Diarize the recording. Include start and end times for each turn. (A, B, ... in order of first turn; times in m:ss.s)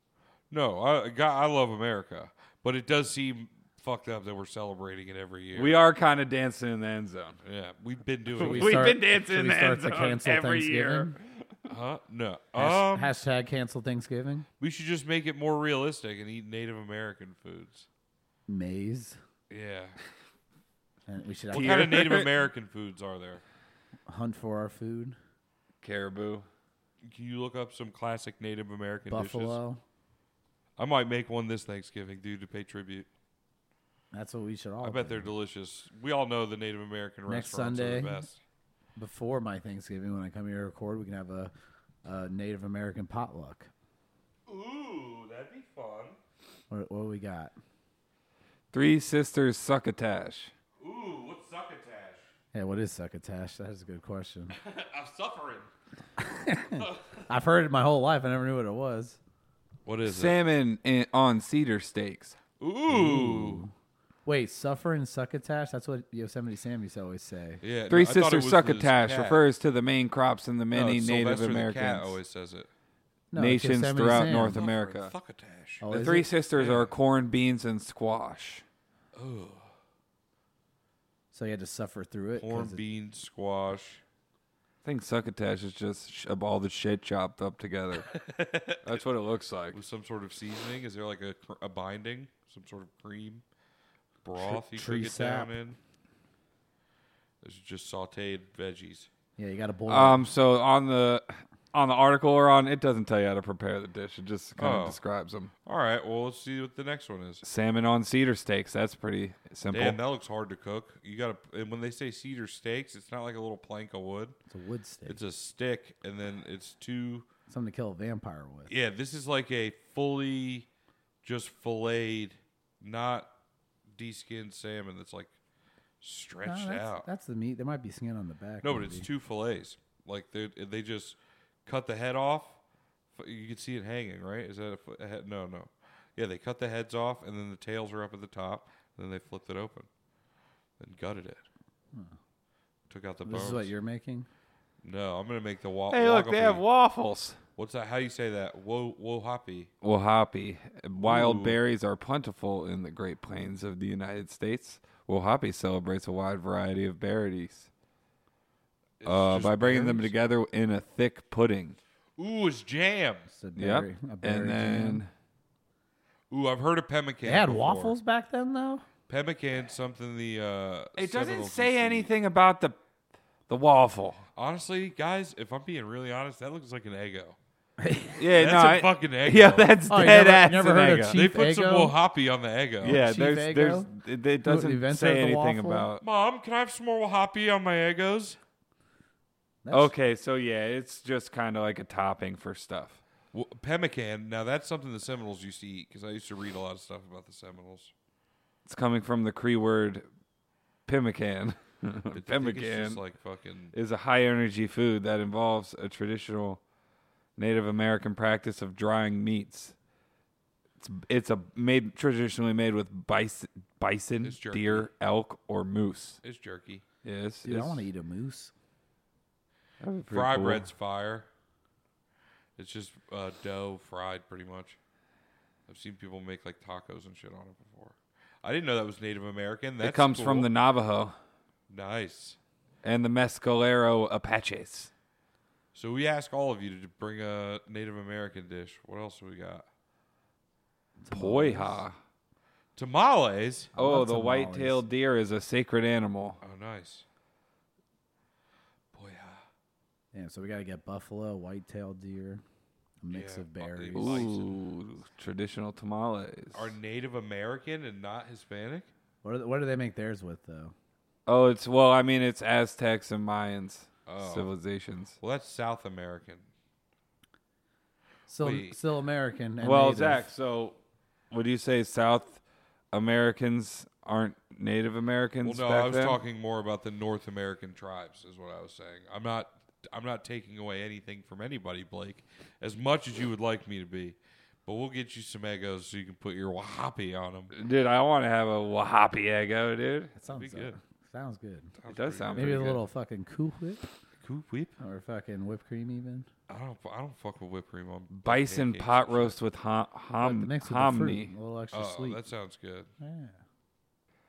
0:00.5-0:05.8 A
0:05.6-0:07.4 B
0:07.4-0:08.9 A
0:08.4-0:11.2 B
0:08.4-0:11.2 C
0:11.7-0:13.1 A
0:12.6-0:14.5 C
0:14.6-0:17.9 A
0:18.5-0:19.2 C
0:19.5-0:20.0 A
0:21.1-0:22.1 C
0:21.5-0:22.3 B
0:21.5-0:23.4 A
0:24.1-0:25.2 C
0:25.8-0:26.5 B
0:27.0-0:29.6 A
0:29.1-0:29.8 C
0:30.8-0:33.1 A
0:34.1-0:35.3 C
0:34.8-0:38.4 A
0:37.3-0:38.2 C
0:39.0-0:41.5 C
0:42.0-0:43.7 C
0:44.5-0:46.2 A
0:46.7-0:47.5 C
0:48.7-0:50.5 B
0:50.8-0:52.3 A
0:52.5-0:54.6 C
0:54.6-0:55.7 A
0:56.2-0:59.2 C
0:56.8-0:57.2 A
0:59.8-1:00.4 A
1:00.1-1:02.4 B
1:02.6-1:03.6 A
1:02.9-1:03.7 C
1:04.3-1:07.6 C
1:07.6-1:09.4 A
1:07.9-1:12.2 B
1:10.7-1:12.7 A
1:13.3-1:14.6 C
1:13.4-1:15.1 B
1:14.3-1:15.8 A
1:15.8-1:16.3 C
1:15.9-1:18.6 B
1:16.5-1:16.9 A
1:19.1-1:19.7 A
1:21.3-1:22.8 C
1:22.4-1:24.0 A
1:24.8-1:28.1 B
1:28.0-1:29.0 A
1:28.8-1:29.8 B
1:29.7-1:33.4 A
1:34.2-1:35.8 A
1:34.4-1:35.5 C
1:37.4-1:39.1 A
1:39.4-1:40.3 C
1:39.9-1:45.5 B
1:44.6-1:45.0 A
1:45.6-1:47.4 A
1:47.4-1:50.0 B
1:49.7-1:54.4 A
1:54.5-1:55.2 C
1:55.1-1:57.3 A
1:57.5-1:58.7 C
1:58.7-2:00.7 A
2:01.2-2:03.3 A
2:03.9-2:05.3 A
2:06.0-2:07.1 A
2:06.4-2:09.1 C
2:08.6-2:12.6 A
2:13.1-2:19.9 A
2:20.8-2:21.4 A
2:22.9-2:23.7 A
2:23.2-2:24.3 C
2:24.8-2:26.6 A
2:25.9-2:27.4 B
2:27.6-2:29.7 A
2:29.8-2:37.7 B
2:31.0-2:31.6 A
2:39.0-2:40.1 A
2:39.0-2:41.8 B
2:42.2-2:43.3 A
2:43.3-2:45.0 C
2:43.6-2:45.1 B
2:46.3-2:48.0 A
2:47.2-2:48.8 C
2:49.1-2:52.1 A
2:51.0-2:52.8 B
2:53.5-2:54.2 B
2:54.4-2:57.4 A
2:57.8-2:58.2 C
2:58.2-3:01.2 B
2:58.3-2:59.7 A
2:59.9-3:02.0 C
3:01.1-3:03.0 A
3:02.8-3:06.0 B
3:02.8-3:03.9 C
3:04.4-3:05.9 C
3:06.0-3:08.4 A
3:09.6-3:09.9 C
3:09.7-3:13.0 B
3:13.3-3:17.9 A
3:18.7-3:20.1 B
3:20.9-3:23.0 B
3:22.1-3:23.7 A
3:23.7-3:26.6 B
3:27.4-3:29.8 B
3:30.8-3:36.2 B
3:34.2-3:34.9 A
3:36.2-3:36.8 A
3:37.0-3:37.9 B
3:37.4-3:38.5 C
3:39.8-3:40.7 B
3:40.1-3:41.3 A
3:42.6-3:44.8 A
3:45.7-3:50.5 A
3:49.8-3:51.2 B
3:51.7-3:52.4 A
3:52.8-3:54.9 B
3:55.7-3:59.7 A
4:01.0-4:01.8 C
4:01.1-4:02.0 B
4:02.8-4:03.7 A
4:03.8-4:04.9 C
4:03.8-4:06.4 B
4:06.4-4:07.0 A
4:08.9-4:09.4 A
4:10.1-4:12.4 C
4:13.0-4:14.4 C
4:13.1-4:14.5 A
4:14.0-4:16.7 B
4:16.5-4:18.9 A
4:19.2-4:20.8 C
4:21.3-4:25.2 B
4:24.1-4:24.5 A
4:25.2-4:26.5 A
4:28.3-4:30.3 C
4:28.4-4:28.8 A
4:29.6-4:30.8 B
4:31.3-4:32.4 B
4:32.9-4:36.2 B
4:35.4-4:47.5 A
4:47.5-4:50.1 B
4:50.2-4:51.8 C
4:50.3-4:50.8 A
4:51.8-4:52.8 A
4:51.9-4:52.8 B
4:52.3-4:53.8 C
4:54.2-4:54.8 A
4:54.8-4:56.3 C
4:56.5-4:59.4 A
4:58.1-5:01.3 B
5:00.2-5:02.2 C
5:01.7-5:02.9 A
5:03.0-5:03.4 C